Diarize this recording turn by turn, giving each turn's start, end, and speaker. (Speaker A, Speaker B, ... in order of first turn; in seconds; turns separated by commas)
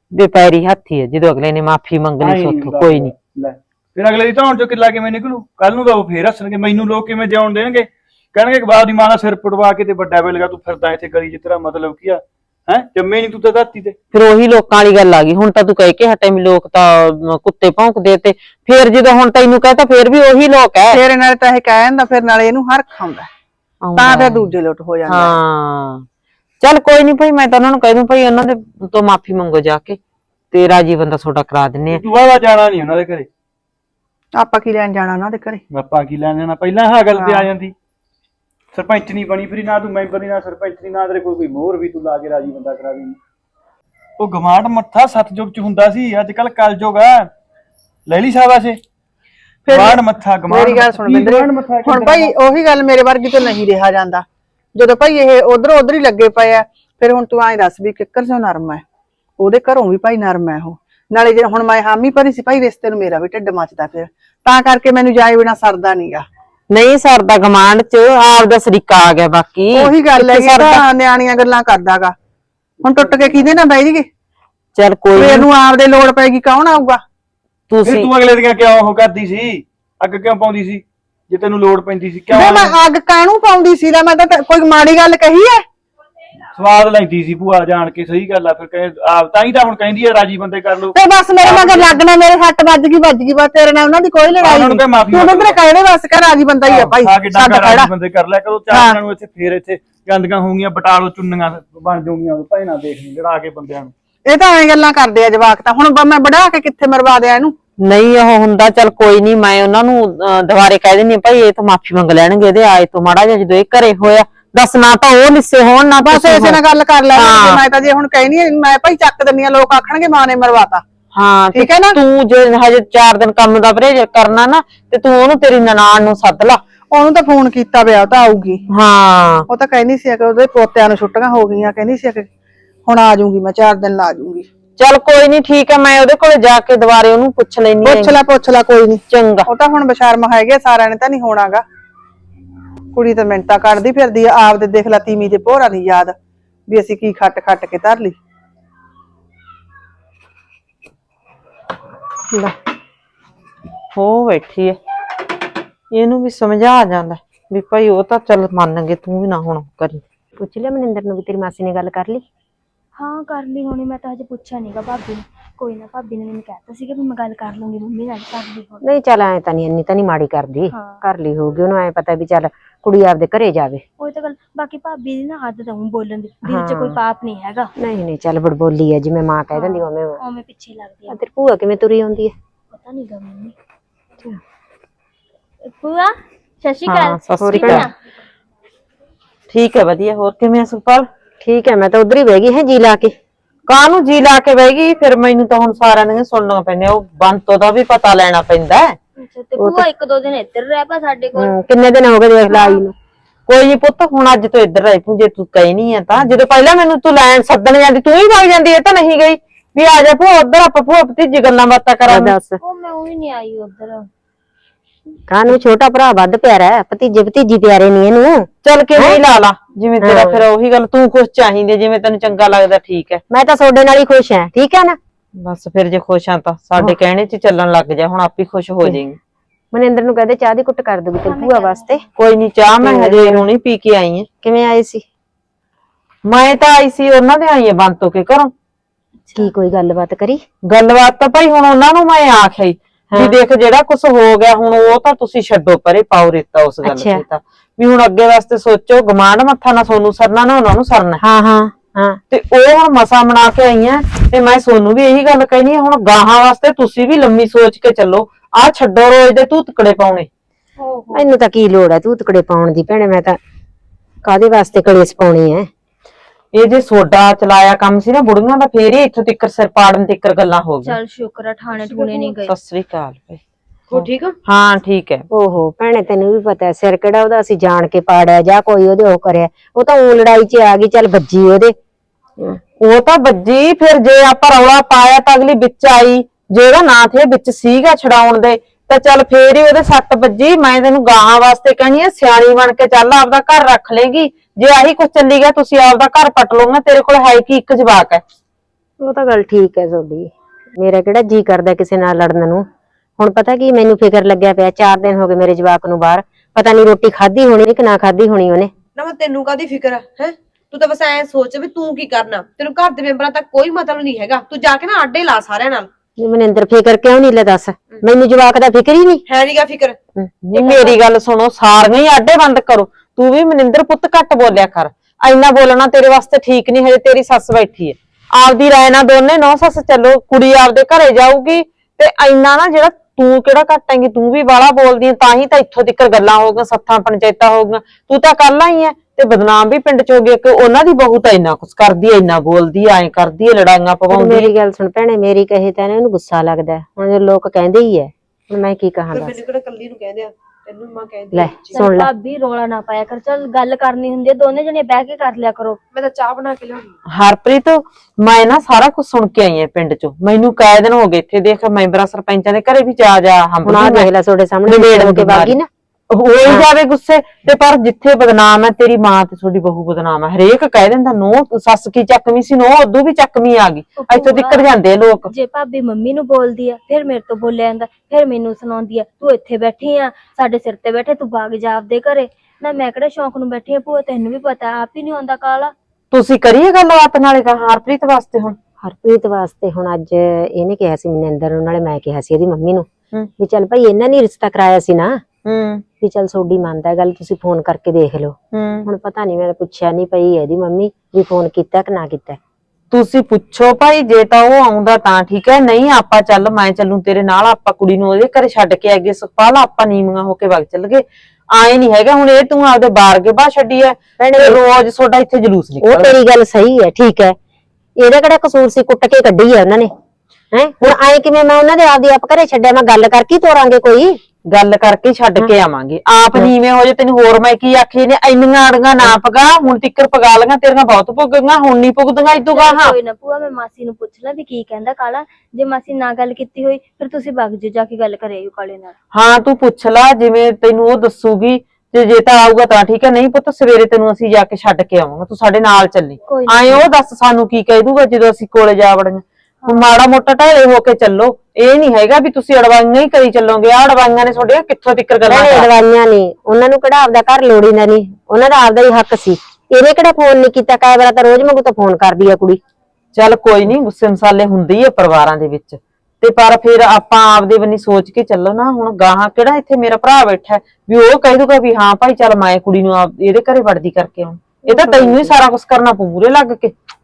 Speaker A: 0.1-3.1, Speaker B: 2.2-14.0, Speaker A: 14.1-21.0, Speaker C: 20.9-23.3, Speaker A: 23.8-24.5, Speaker C: 24.0-25.4, Speaker A: 25.1-26.1, Speaker A: 26.6-30.0, Speaker A: 30.5-32.0, Speaker B: 31.9-33.3, Speaker C: 34.4-35.6, Speaker B: 35.7-37.7, Speaker C: 37.2-37.5, Speaker B: 38.7-43.2, Speaker B: 44.2-47.3, Speaker B: 48.1-48.8, Speaker C: 49.7-54.2, Speaker B: 49.7-52.3, Speaker C: 54.8-58.8, Speaker C: 59.4-66.3, Speaker A: 66.7-70.8, Speaker C: 69.7-72.2, Speaker C: 72.8-74.1, Speaker A: 74.8-75.5, Speaker C: 75.2-77.0, Speaker A: 77.7-78.1, Speaker B: 77.8-82.8, Speaker C: 82.3-85.6, Speaker B: 86.6-92.0, Speaker C: 91.0-97.9, Speaker B: 94.4-95.6, Speaker B: 96.7-103.9, Speaker C: 98.7-99.0, Speaker C: 104.3-107.5, Speaker A: 107.8-116.6, Speaker C: 116.0-120.8, Speaker A: 117.2-117.6, Speaker A: 121.2-126.6, Speaker C: 121.5-122.0, Speaker C: 126.9-128.6, Speaker A: 128.7-129.5, Speaker C: 129.5-132.3, Speaker C: 132.9-134.5, Speaker A: 134.8-138.2, Speaker C: 137.8-141.6, Speaker A: 139.1-139.5, Speaker C: 142.9-146.2, Speaker C: 146.7-148.2, Speaker A: 153.9-154.8, Speaker A: 155.9-160.0, Speaker D: 160.4-162.2, Speaker E: 163.0-168.8, Speaker D: 168.8-173.8, Speaker E: 170.7-171.0, Speaker E: 174.0-177.7, Speaker D: 176.4-177.0, Speaker D: 177.8-180.2, Speaker E: 179.5-181.2, Speaker D: 181.1-182.3, Speaker E: 182.7-183.6, Speaker E: 185.7-187.9, Speaker A: 186.9-187.9, Speaker D: 187.4-187.9, Speaker A: 189.5-191.1, Speaker D: 191.4-193.1, Speaker A: 193.7-199.0, Speaker E: 199.2-201.5, Speaker D: 199.6-199.9, Speaker D: 201.4-202.9, Speaker E: 202.5-202.8, Speaker A: 203.5-212.3, Speaker D: 212.1-212.6, Speaker E: 212.6-214.1, Speaker D: 215.3-219.2, Speaker A: 218.6-223.2, Speaker D: 220.0-220.4, Speaker D: 223.3-225.0, Speaker A: 225.4-229.2, Speaker D: 229.7-232.0, Speaker E: 231.2-232.0, Speaker A: 232.2-234.3, Speaker D: 232.8-233.4, Speaker D: 234.4-235.0, Speaker A: 236.3-238.5, Speaker E: 239.2-239.5, Speaker D: 239.4-240.4, Speaker A: 240.7-251.2, Speaker D: 246.8-247.2, Speaker D: 251.2-252.2, Speaker A: 252.3-260.3, Speaker D: 261.1-263.4, Speaker D: 264.2-265.7, Speaker A: 266.5-271.0, Speaker E: 270.9-272.5, Speaker F: 271.8-272.4, Speaker A: 272.5-273.4, Speaker F: 273.9-274.3, Speaker A: 273.9-275.2, Speaker D: 275.3-281.8, Speaker A: 282.8-298.2, Speaker D: 299.0-302.7, Speaker D: 303.2-308.7, Speaker F: 309.0-315.9, Speaker D: 316.2-319.2, Speaker F: 319.3-320.0, Speaker A: 320.4-344.5, Speaker F: 320.5-321.0, Speaker D: 344.1-349.4, Speaker F: 349.2-351.8, Speaker D: 351.3-352.1, Speaker E: 351.7-355.8, Speaker F: 355.9-356.9, Speaker A: 357.1-364.1, Speaker D: 363.6-365.7, Speaker A: 364.7-365.6, Speaker A: 366.1-375.3, Speaker E: 374.0-374.7, Speaker E: 375.3-385.7, Speaker A: 386.1-388.6, Speaker D: 388.8-392.9, Speaker D: 393.4-395.2, Speaker A: 395.5-395.8, Speaker D: 396.0-402.4, Speaker A: 398.5-398.9, Speaker A: 402.9-416.2, Speaker D: 414.2-414.6, Speaker D: 415.8-417.4, Speaker D: 418.0-419.9, Speaker D: 420.5-424.2, Speaker A: 424.5-433.0, Speaker E: 432.5-438.9, Speaker A: 439.1-455.7, Speaker E: 446.3-446.9, Speaker E: 449.6-450.0, Speaker D: 455.3-462.6, Speaker A: 463.1-476.7, Speaker D: 474.7-475.3